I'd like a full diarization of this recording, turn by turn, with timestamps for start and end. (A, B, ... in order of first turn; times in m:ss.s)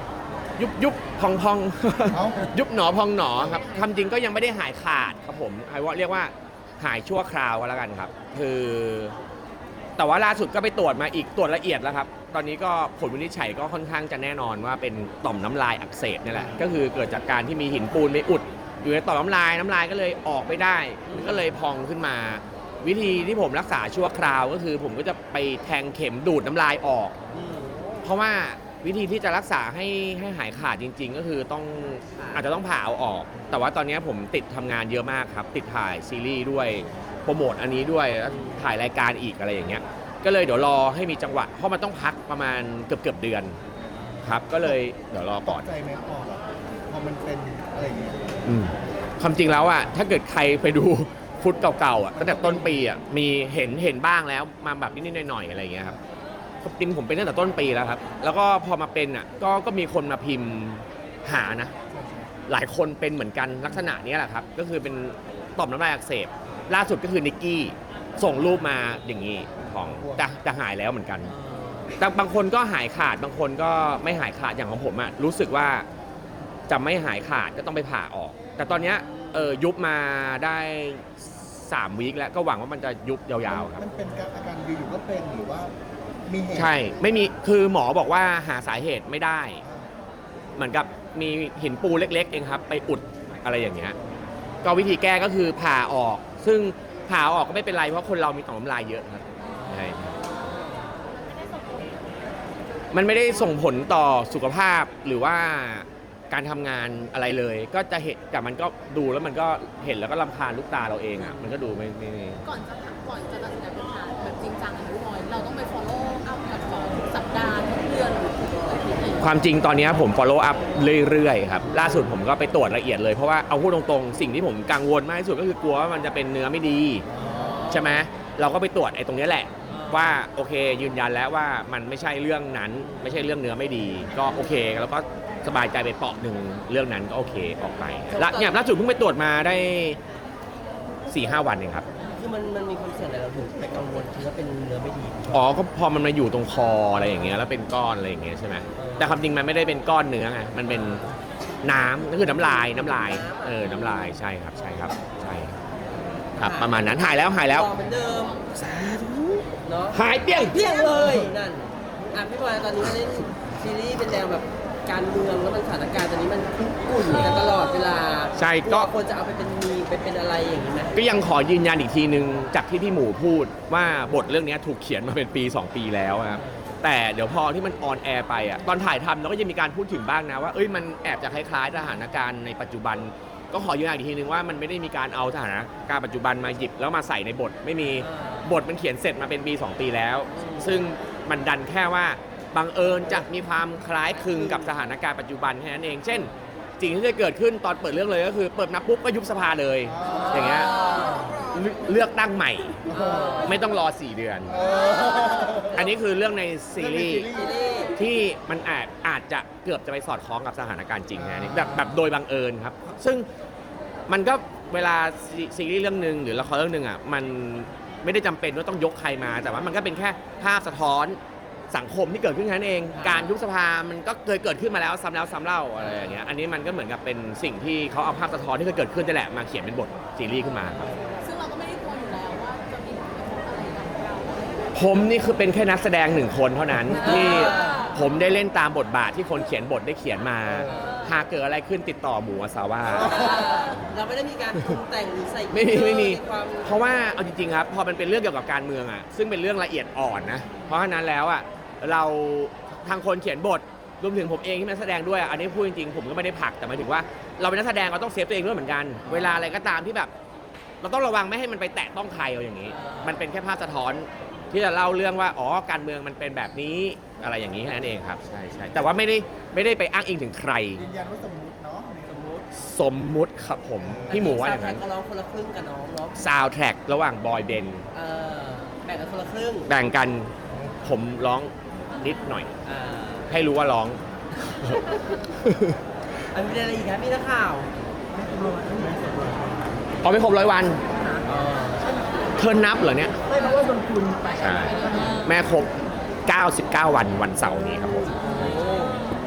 0:00.6-0:09.2 A
0:02.1-0:02.5 B
0:10.0-0:27.1 A
0:21.1-0:21.4 C
0:27.3-0:28.0 C
0:28.0-0:43.6 A
0:32.2-0:32.4 C
0:38.3-0:38.6 C
0:44.0-0:44.4 C
0:44.2-0:45.7 A
0:45.4-0:48.2 B
0:48.4-0:56.0 A
0:52.2-0:52.7 B
0:56.6-1:01.7 A
1:01.9-1:02.3 B
1:02.5-1:11.3 A
1:09.7-1:10.2 B
1:11.3-1:11.9 C
1:12.0-1:15.8 A
1:16.7-1:23.8 A
1:18.7-1:19.6 C
1:23.6-1:25.7 B
1:26.2-1:26.7 B
1:26.5-1:29.6 A
1:29.6-1:29.9 B
1:30.6-1:34.0 A
1:34.6-1:40.2 A
1:39.6-1:40.6 C
1:42.9-1:52.4 A
1:51.2-1:51.6 C
1:52.4-1:59.2 D
1:59.2-2:07.0 A
2:01.7-2:02.1 C
2:07.2-2:08.0 C
2:07.7-2:20.0 A
2:09.7-2:10.2 C
2:12.8-2:13.2 C
2:18.1-2:18.6 C
2:21.1-2:21.9 A
2:22.0-2:25.4 C
2:25.3-2:31.0 A
2:28.8-2:29.2 C
2:30.7-2:31.2 C
2:31.6-2:35.6 A
2:32.2-2:34.2 C
2:36.3-2:36.9 C
2:36.4-2:37.7 A
2:37.5-2:38.4 C
2:38.5-2:40.6 A
2:39.6-2:51.0 C
2:48.4-2:48.9 A
2:50.9-3:22.8 A
2:56.4-2:56.7 C
3:08.0-3:08.5 C
3:10.3-3:10.8 C
3:14.3-3:14.7 C
3:20.0-3:20.7 B
3:20.0-3:21.4 C
3:22.9-3:23.4 B
3:22.9-3:23.6 C
3:23.4-3:24.6 A
3:24.5-3:25.8 B
3:25.2-3:25.4 D
3:25.7-3:27.4 A
3:26.8-3:27.6 B
3:27.3-3:27.9 C
3:28.0-3:33.2 A
3:31.2-3:31.7 B
3:31.6-3:32.0 C
3:34.1-3:41.2 A
3:41.7-3:50.9 A
3:42.9-3:43.3 C
3:45.8-3:46.3 C
3:50.8-3:51.2 C
3:51.2-3:54.6 D
3:54.7-4:03.7 A
3:56.9-3:57.8 C
3:57.5-3:57.9 D
4:00.8-4:01.1 D
4:02.8-4:06.8 C
4:05.5-4:20.1 A
4:19.1-4:19.4 C
4:20.8-4:30.8 A
4:22.7-4:23.2 C
4:30.8-4:32.1 B
4:32.0-4:32.5 C
4:32.5-4:34.8 A
4:34.1-4:36.2 C
4:36.2-4:37.9 A
4:37.9-4:39.7 C
4:39.7-4:42.5 A
4:42.6-4:43.2 C
4:43.3-4:45.8 A
4:46.3-4:47.7 C
4:48.1-4:49.7 B
4:50.0-4:50.8 A
4:51.2-4:51.8 C
4:51.8-4:52.3 B
4:52.4-4:53.2 A
4:53.3-4:55.3 B
4:54.4-4:55.7 A
4:56.2-4:58.2 A
4:58.2-4:59.0 C